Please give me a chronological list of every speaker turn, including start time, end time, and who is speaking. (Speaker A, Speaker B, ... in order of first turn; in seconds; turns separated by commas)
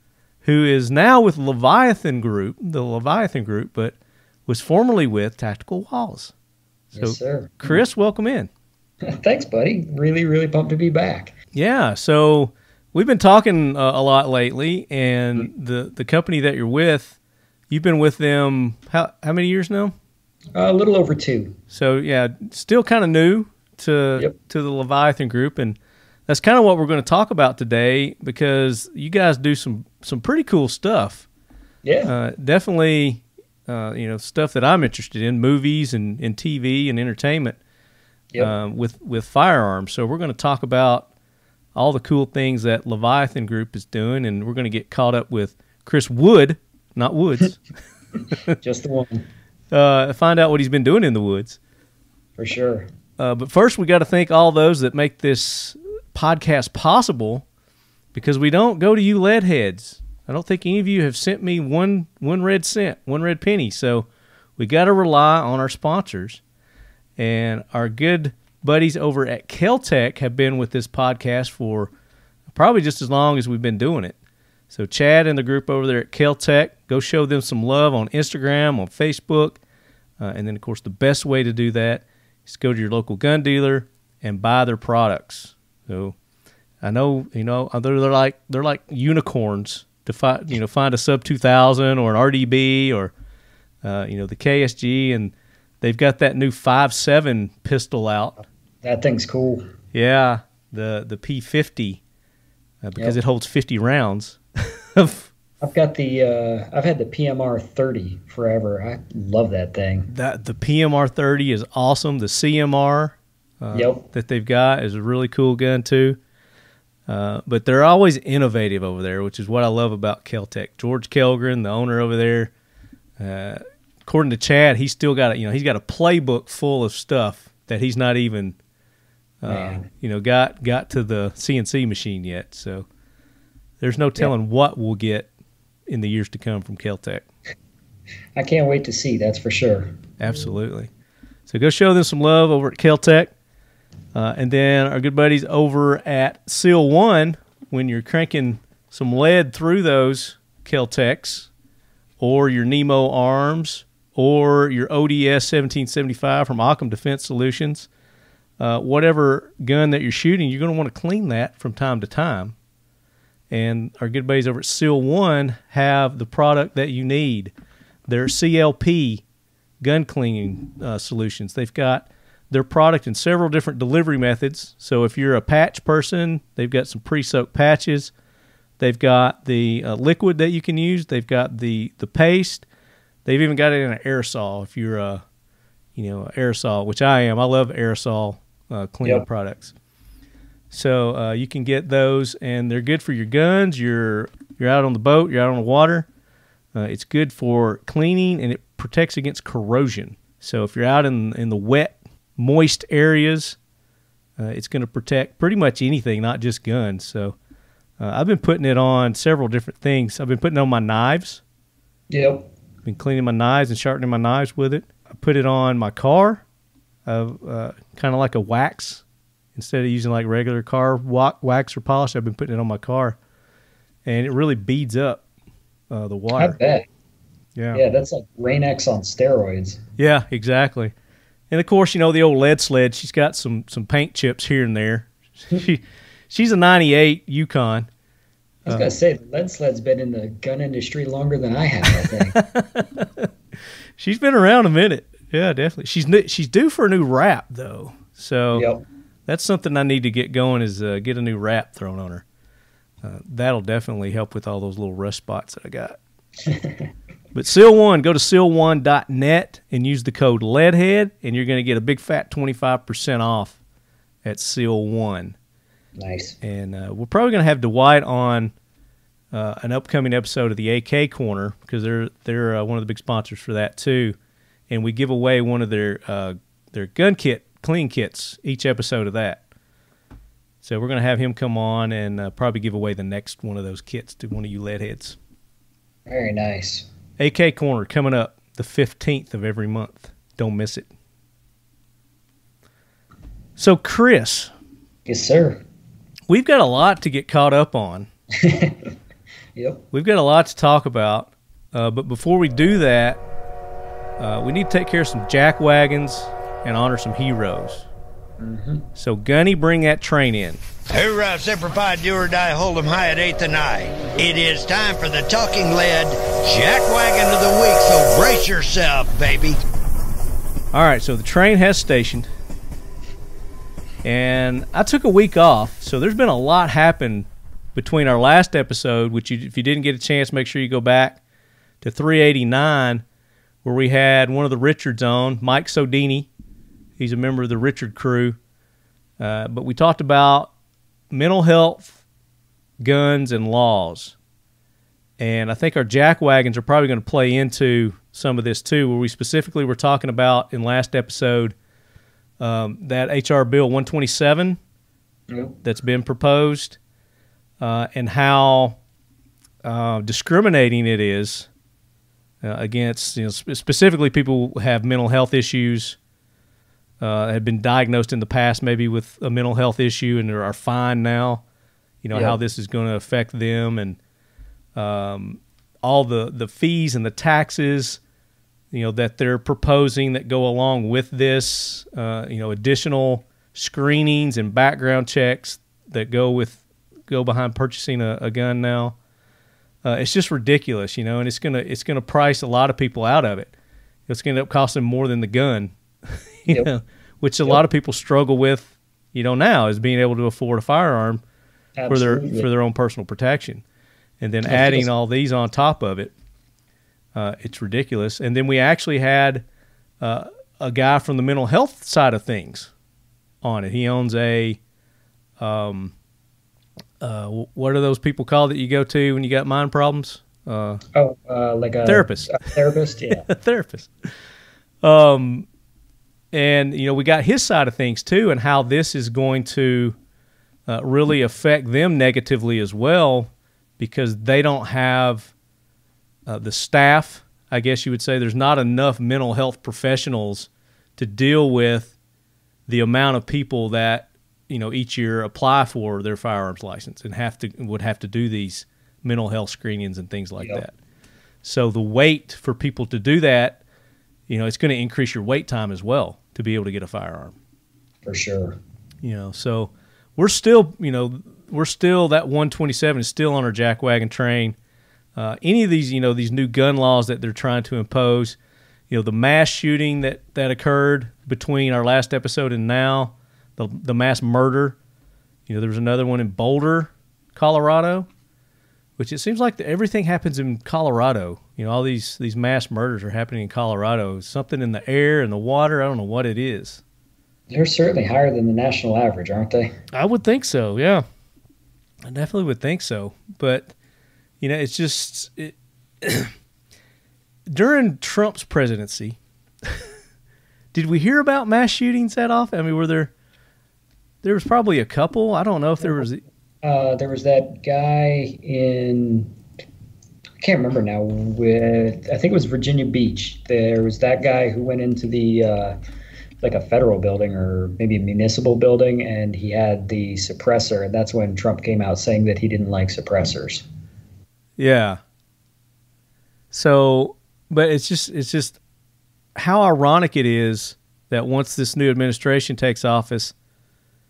Speaker A: 0.4-6.3, Speaker B: 6.9-7.8, Speaker A: 6.9-8.5, Speaker B: 9.0-11.3, Speaker A: 11.5-17.1, Speaker A: 17.7-19.9, Speaker B: 20.5-21.6, Speaker A: 21.7-31.3, Speaker B: 31.8-32.1, Speaker A: 32.0-37.6, Speaker A: 38.4-41.1, Speaker A: 41.7-47.6, Speaker B: 48.6-49.2, Speaker A: 49.7-51.6, Speaker B: 52.4-52.9, Speaker A: 53.2-57.4, Speaker A: 58.1-66.4, Speaker A: 67.2-71.9, Speaker A: 72.5-74.1, Speaker A: 74.7-79.6, Speaker A: 80.2-86.2, Speaker A: 86.8-93.1, Speaker A: 93.8-98.4, Speaker B: 98.8-99.6, Speaker A: 99.9-102.0, Speaker A: 102.8-105.3, Speaker B: 105.6-110.1, Speaker A: 110.1-116.2, Speaker B: 113.7-114.0, Speaker A: 117.1-122.5, Speaker A: 123.2-128.6, Speaker A: 129.4-132.9, Speaker B: 129.5-129.8, Speaker A: 133.8-135.3, Speaker A: 135.9-137.2, Speaker B: 138.3-140.0, Speaker A: 140.2-140.9, Speaker A: 141.5-143.3, Speaker A: 144.1-151.5, Speaker A: 152.2-157.9, Speaker A: 158.6-162.5, Speaker A: 163.5-167.5, Speaker A: 168.1-169.2, Speaker A: 169.8-178.1, Speaker A: 178.8-182.7, Speaker A: 183.2-185.2, Speaker A: 185.9-189.7, Speaker A: 190.7-196.1, Speaker A: 196.7-203.6, Speaker A: 204.4-207.4, Speaker A: 208.0-211.4, Speaker B: 212.1-212.5, Speaker A: 212.8-216.4, Speaker A: 217.1-219.0, Speaker A: 219.5-223.2, Speaker A: 224.0-225.2, Speaker A: 225.9-226.6, Speaker B: 226.3-226.9, Speaker A: 227.6-227.8, Speaker B: 227.7-229.8, Speaker A: 230.0-230.9, Speaker A: 231.5-237.9, Speaker B: 238.7-242.4, Speaker A: 242.3-243.3, Speaker A: 244.0-248.7, Speaker B: 248.5-248.8, Speaker A: 249.3-252.2, Speaker A: 253.0-256.0, Speaker B: 256.4-256.8, Speaker A: 257.3-263.6, Speaker A: 264.2-265.4, Speaker B: 266.0-266.4, Speaker A: 266.4-268.5, Speaker A: 269.3-274.1, Speaker A: 274.7-279.4, Speaker A: 280.6-285.2, Speaker B: 286.1-286.9, Speaker A: 287.2-290.9, Speaker A: 293.6-294.5, Speaker B: 295.1-295.6, Speaker A: 296.3-298.1, Speaker B: 298.4-298.9, Speaker B: 299.5-299.8, Speaker A: 299.9-303.2, Speaker A: 304.2-307.9, Speaker B: 308.4-308.9, Speaker A: 308.9-310.6, Speaker C: 310.9-319.6, Speaker A: 320.7-322.3, Speaker A: 324.0-331.2, Speaker A: 331.8-333.0, Speaker A: 333.6-336.3, Speaker A: 337.0-338.4, Speaker A: 339.2-340.5, Speaker A: 341.1-341.9, Speaker A: 342.8-344.1, Speaker A: 345.2-351.5, Speaker A: 352.4-354.6, Speaker B: 355.3-355.6, Speaker A: 355.6-356.8, Speaker A: 357.6-358.8, Speaker A: 359.6-361.5, Speaker A: 362.4-366.0, Speaker A: 367.0-371.4, Speaker A: 372.0-374.0, Speaker B: 372.1-372.4, Speaker A: 374.7-378.0, Speaker A: 378.7-388.9, Speaker A: 389.8-393.5, Speaker A: 394.1-395.7, Speaker A: 396.4-401.2, Speaker B: 401.8-402.5, Speaker A: 401.9-403.6, Speaker A: 404.2-406.1, Speaker B: 404.5-404.9, Speaker A: 407.1-409.4, Speaker A: 410.0-412.7, Speaker A: 413.4-414.6, Speaker A: 415.4-415.9, Speaker A: 417.0-420.8, Speaker B: 420.9-423.2, Speaker A: 421.9-422.4, Speaker A: 423.2-423.9, Speaker A: 424.8-425.4, Speaker A: 426.3-429.9, Speaker A: 430.7-435.3, Speaker A: 436.3-441.9, Speaker A: 442.7-450.7, Speaker A: 451.4-453.6, Speaker A: 454.3-457.3, Speaker B: 458.0-458.6, Speaker A: 459.0-464.6, Speaker A: 465.1-468.4, Speaker A: 468.9-474.8, Speaker A: 475.5-478.1, Speaker A: 479.0-486.8, Speaker B: 487.5-489.7, Speaker A: 489.9-491.0, Speaker A: 492.0-493.7, Speaker A: 494.4-496.3, Speaker A: 497.5-499.2, Speaker A: 500.7-503.1, Speaker A: 504.2-506.2, Speaker B: 506.6-509.3, Speaker B: 510.4-515.8, Speaker B: 516.4-523.6, Speaker A: 524.6-525.0, Speaker A: 526.5-528.6, Speaker A: 529.4-533.3